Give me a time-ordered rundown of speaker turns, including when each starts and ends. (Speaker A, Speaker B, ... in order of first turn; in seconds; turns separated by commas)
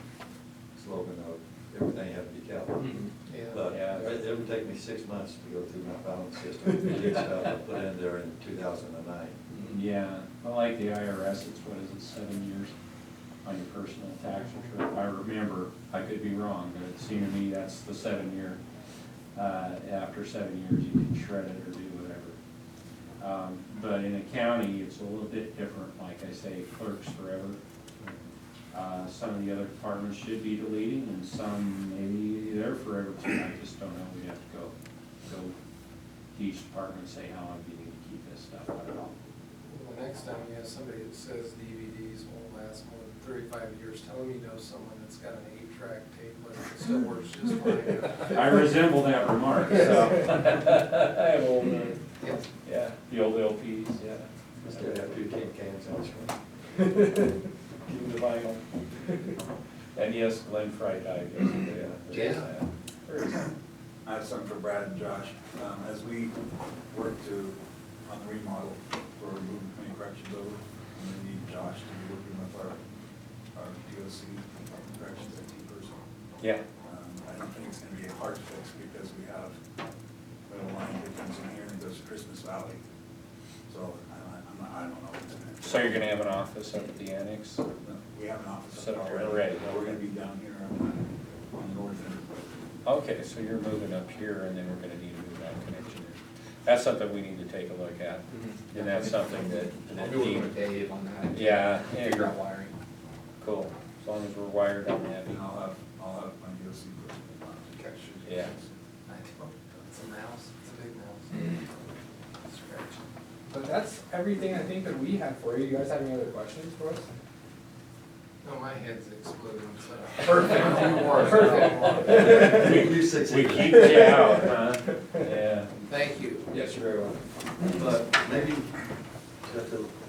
Speaker A: 0.7-9.4, Speaker B: 3.2-3.6, Speaker C: 3.6-4.1, Speaker C: 9.7-12.7, Speaker C: 13.4-18.6, Speaker C: 19.3-22.4, Speaker C: 23.2-27.6, Speaker A: 28.0-28.3, Speaker C: 28.7-35.5, Speaker C: 36.3-39.1, Speaker B: 39.7-48.6, Speaker C: 48.2-52.0, Speaker B: 52.2-52.5, Speaker C: 52.6-55.3, Speaker A: 54.6-56.3, Speaker C: 56.8-57.2, Speaker C: 57.9-58.6, Speaker C: 59.9-63.5, Speaker B: 62.1-62.5, Speaker D: 64.0-66.3, Speaker D: 66.9-72.8, Speaker D: 73.5-76.0, Speaker C: 76.4-76.7, Speaker D: 76.8-79.5, Speaker D: 80.5-82.8, Speaker D: 83.7-86.0, Speaker C: 85.6-87.6, Speaker D: 87.8-92.4, Speaker C: 88.7-90.0, Speaker C: 92.8-100.6, Speaker E: 100.0-102.7, Speaker C: 101.3-102.4, Speaker C: 103.4-105.5, Speaker D: 105.3-108.7, Speaker C: 108.2-108.5, Speaker B: 109.0-111.8, Speaker B: 112.4-113.1, Speaker E: 116.5-116.8, Speaker B: 118.4-122.6, Speaker C: 121.7-125.7, Speaker A: 122.1-124.2, Speaker B: 125.9-126.6, Speaker A: 127.6-128.8, Speaker A: 129.4-129.9